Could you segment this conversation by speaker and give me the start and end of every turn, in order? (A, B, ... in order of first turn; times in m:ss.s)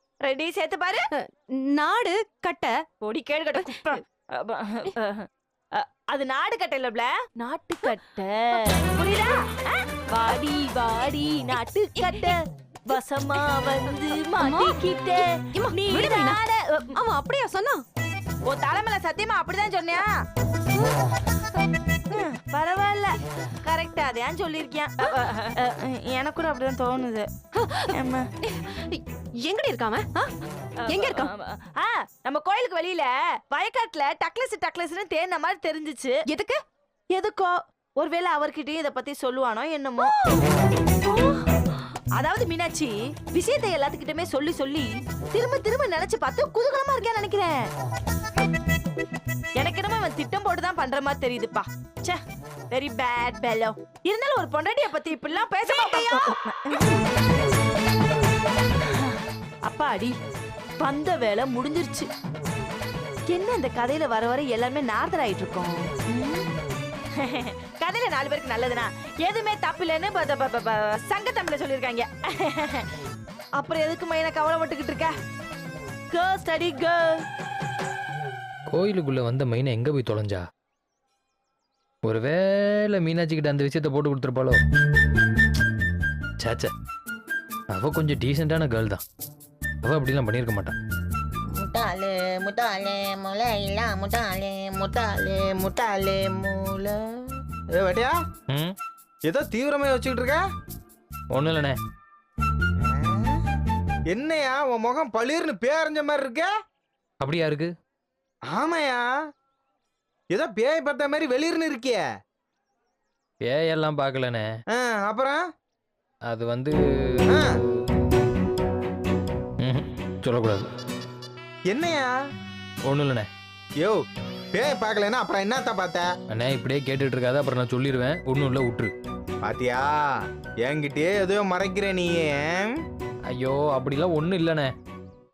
0:00.2-0:01.0 A
0:01.1-0:02.8 B
0:03.0-0:12.4 A
0:03.6-0:04.0 B
0:11.9-0:12.3 B
0:12.9-0:17.0 A
0:14.0-0:16.4 B
0:16.9-0:17.8 B
0:18.5-0:20.2 A
0:22.1-0:27.3 A
0:27.6-0:30.3 B
0:27.9-0:28.3 A
0:30.9-0:36.2 A
0:30.9-0:31.3 B
0:36.3-0:36.6 B
0:37.1-0:40.1 A
0:40.0-0:40.4 B
0:41.0-0:41.4 A
0:42.2-0:47.5 A
0:49.6-0:52.2 A
0:52.7-0:57.0 A
0:55.6-0:56.3 B
0:58.8-1:00.2 A
1:00.8-1:02.1 A
1:03.3-1:06.5 A
1:07.2-1:12.9 A
1:13.6-1:15.1 A
1:16.1-1:17.2 A
1:18.7-1:20.4 C
1:22.0-1:24.6 C
1:26.4-1:26.7 C
1:27.7-1:29.0 C
1:29.8-1:30.7 C
1:31.6-1:37.0 D
1:37.8-1:38.1 E
1:39.3-1:40.4 E
1:41.3-1:41.8 C
1:42.8-1:43.4 E
1:44.1-1:46.5 E
1:47.2-1:47.7 C
1:48.5-1:49.0 E
1:50.3-1:52.0 E
1:53.4-1:54.5 C
1:54.7-1:55.4 E
1:56.3-1:57.5 C
1:59.6-2:00.7 C
2:01.7-2:02.1 E
2:02.9-2:03.3 C
2:04.5-2:06.1 E
2:06.3-2:08.9 C
2:09.4-2:10.0 E
2:10.6-2:12.8 E
2:13.3-2:14.7 C